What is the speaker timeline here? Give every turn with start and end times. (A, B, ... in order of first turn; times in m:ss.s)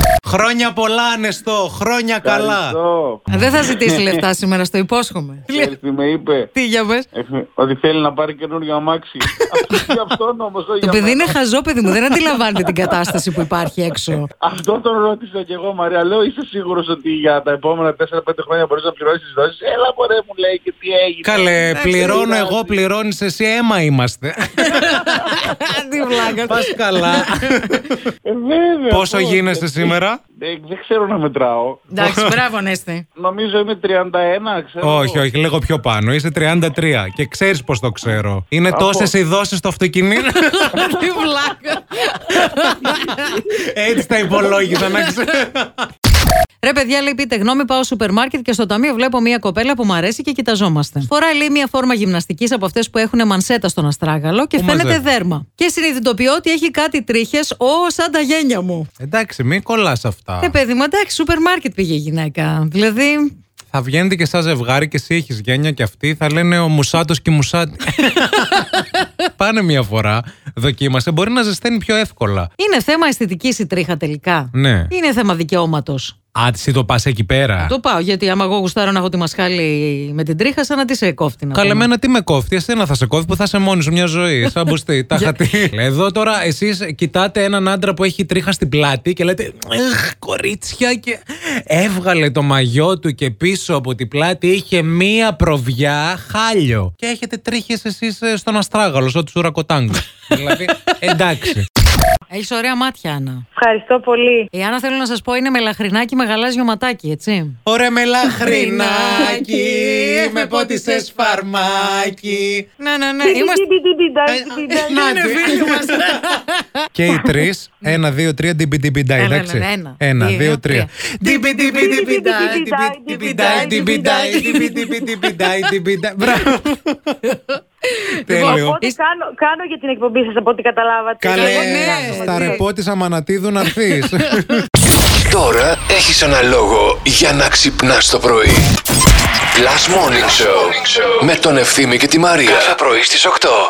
0:00.2-0:02.8 A
0:02.2-0:04.2 B
0:03.3-0:05.7 C
0:03.3-0:03.6 A
0:05.5-0:06.5 B
0:06.5-0:07.1 C
0:07.1-0:11.3 B
0:10.8-0:14.3 C
0:14.4-0:22.8 B
0:21.2-0:25.4 A
0:21.6-0:22.2 C
0:24.6-0:27.8 C
0:26.3-0:28.1 A
0:28.2-0:31.8 B
0:28.9-0:30.2 A
0:31.9-0:33.0 C
0:33.2-0:35.2 B
0:34.8-0:41.1 A
0:38.7-0:39.1 B
0:40.3-0:43.4 C
0:42.3-0:45.9 A
0:44.3-0:45.2 C
0:46.6-0:58.9 C
0:54.6-0:55.0 A
0:59.0-1:00.6 A
1:00.4-1:03.4 C
1:03.7-1:12.5 A
1:08.3-1:08.9 C
1:12.6-1:16.1 C
1:14.5-1:14.9 A
1:16.3-1:17.7 A
1:17.6-1:21.9 C
1:21.5-1:41.6 A
1:40.4-1:41.2 C
1:42.3-1:43.5 C
1:43.6-1:44.5 D
1:44.5-1:47.6 C
1:47.6-1:52.6 A
1:48.3-1:51.1 C
1:52.8-1:53.6 C
1:53.2-1:55.0 D
1:54.2-1:56.3 A
1:54.7-1:56.8 C
1:56.9-2:07.3 A
1:59.2-2:00.9 C
2:01.3-2:05.1 D
2:01.6-2:01.9 C
2:03.1-2:04.8 C
2:06.3-2:06.5 C
2:07.2-2:09.0 C
2:08.2-2:08.8 A
2:08.3-2:12.6 D
2:11.2-2:14.6 A
2:11.3-2:12.6 C
2:13.7-2:14.6 C
2:15.2-2:15.9 B
2:16.0-2:18.4 E
2:20.3-2:20.8 B
2:21.2-2:23.5 E